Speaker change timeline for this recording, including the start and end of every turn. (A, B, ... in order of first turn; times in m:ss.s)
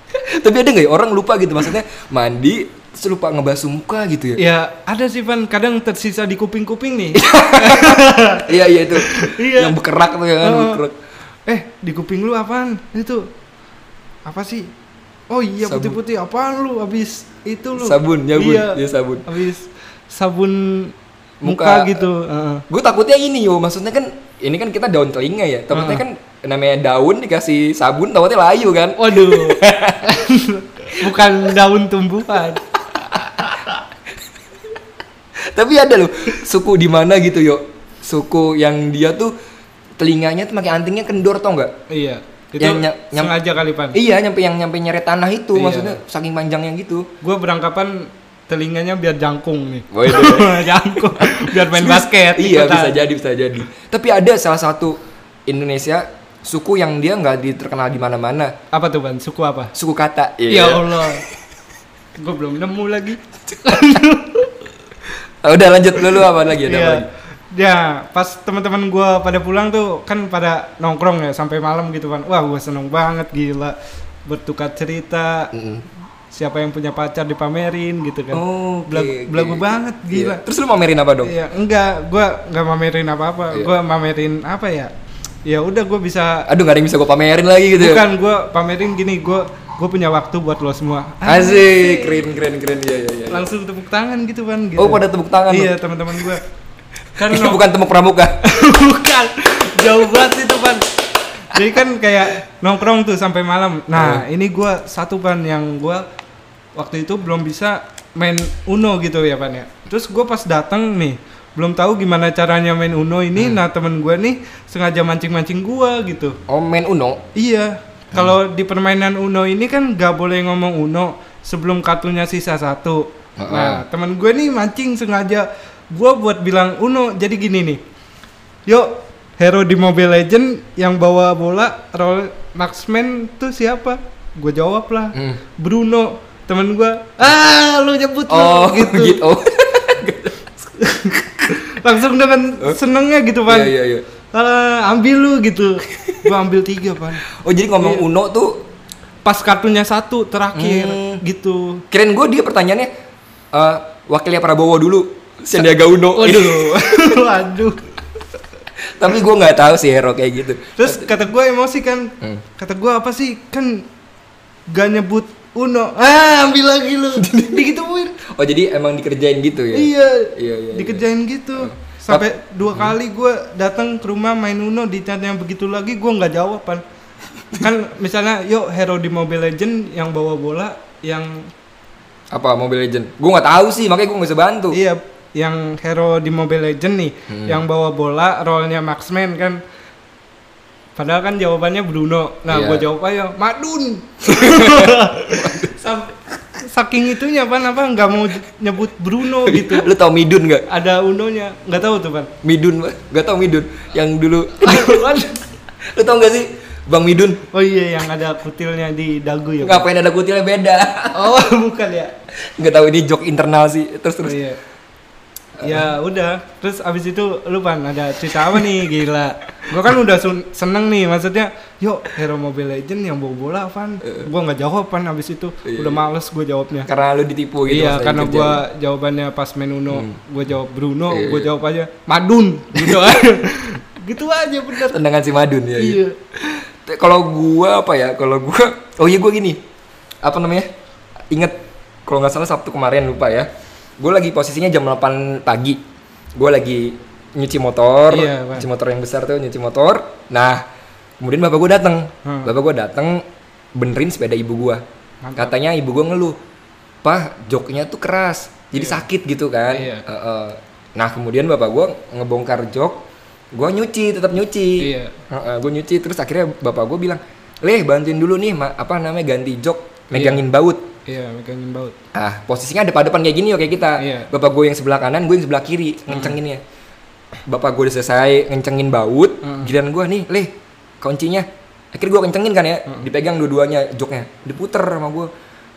0:00.2-0:04.4 A
0:04.4-0:09.8 B
0:07.2-0:11.0 A
0:10.4-0:10.8 B
0:11.5-0:13.3 B
0:14.2-0:14.7 B
0:15.3-0:22.7 B
0:15.6-0:16.0 A
0:17.8-0:19.2 A
0:21.4-0:22.1 A
0:22.7-0:30.1 A
0:25.7-0:26.0 B
0:29.0-0:33.8 B
0:33.1-0:33.6 A
0:35.4-0:39.3 A
0:40.0-0:41.7 A
0:41.9-0:44.0 B
0:42.6-0:43.4 A
0:43.9-0:47.1 A
0:45.6-0:46.0 B
0:47.2-0:53.0 B
0:49.9-0:58.5 A
0:58.7-0:59.7 B
0:59.8-1:01.2 A
1:00.5-1:01.2 B
1:02.2-1:04.6 B
1:05.4-1:07.1 A
1:06.0-1:15.5 B
1:15.5-1:15.9 A
1:16.3-1:20.4 B
1:18.3-1:21.3 A
1:21.2-1:24.9 B
1:25.4-1:26.5 B
1:26.5-1:28.0 A
1:27.8-1:32.2 B
1:31.2-1:33.5 A
1:33.3-1:36.4 B
1:34.8-1:36.4 A
1:37.2-1:37.6 B
1:37.2-1:38.4 A
1:38.4-1:41.0 B
1:41.5-1:46.0 B
1:43.9-1:44.2 A
1:46.8-1:56.4 B
1:53.4-1:53.6 A
1:56.5-1:57.2 A
1:57.4-2:07.8 B
2:03.4-2:03.8 A
2:08.7-2:19.2 B
2:15.1-2:15.4 A
2:18.3-2:20.5 A
2:20.8-2:23.7 B
2:23.5-2:24.0 A
2:24.3-2:27.2 B
2:27.3-2:28.7 A
2:29.2-2:31.8 B
2:30.5-2:31.2 A
2:31.9-2:32.9 A
2:33.5-2:37.2 A
2:36.2-2:37.9 B
2:38.8-2:41.1 A
2:40.8-2:43.9 B
2:44.7-2:48.2 B
2:47.2-2:51.0 A
2:49.7-2:56.8 B
2:51.6-2:53.0 A
2:57.5-3:01.5 B
3:02.3-3:04.8 A
3:04.7-3:09.6 B
3:07.3-3:07.6 A
3:11.0-3:19.9 B
3:12.5-3:12.9 A
3:14.2-3:15.8 A
3:19.4-3:20.7 A
3:20.7-3:22.3 B
3:22.4-3:25.1 A
3:24.6-3:25.5 B
3:25.8-3:27.4 A
3:27.5-3:29.9 B
3:29.6-3:31.3 A
3:31.1-3:32.2 B
3:32.4-3:34.4 A
3:34.2-3:34.6 B
3:35.6-3:35.9 A
3:35.6-3:46.9 B
3:45.7-3:46.0 A
3:46.9-3:48.6 A
3:47.7-3:55.0 B
3:49.9-3:50.2 A
3:51.1-3:51.5 A
3:52.8-3:53.2 A
3:54.7-3:56.0 A
3:55.8-3:56.6 B
3:56.8-3:59.6 A
4:00.2-4:00.7 A
4:01.3-4:05.8 A
4:06.4-4:10.6 A
4:08.1-4:08.7 B
4:11.2-4:14.8 A
4:12.2-4:12.5 B
4:15.2-4:15.6 B
4:15.4-4:16.4 A
4:17.0-4:30.8 A
4:18.8-4:19.0 B
4:19.7-4:20.1 B
4:24.8-4:25.2 B
4:30.1-4:30.4 B
4:31.0-4:32.0 B
4:32.1-4:36.6 A
4:34.0-4:34.3 B
4:36.1-4:36.4 B
4:37.4-4:45.3 A
4:39.4-4:39.7 B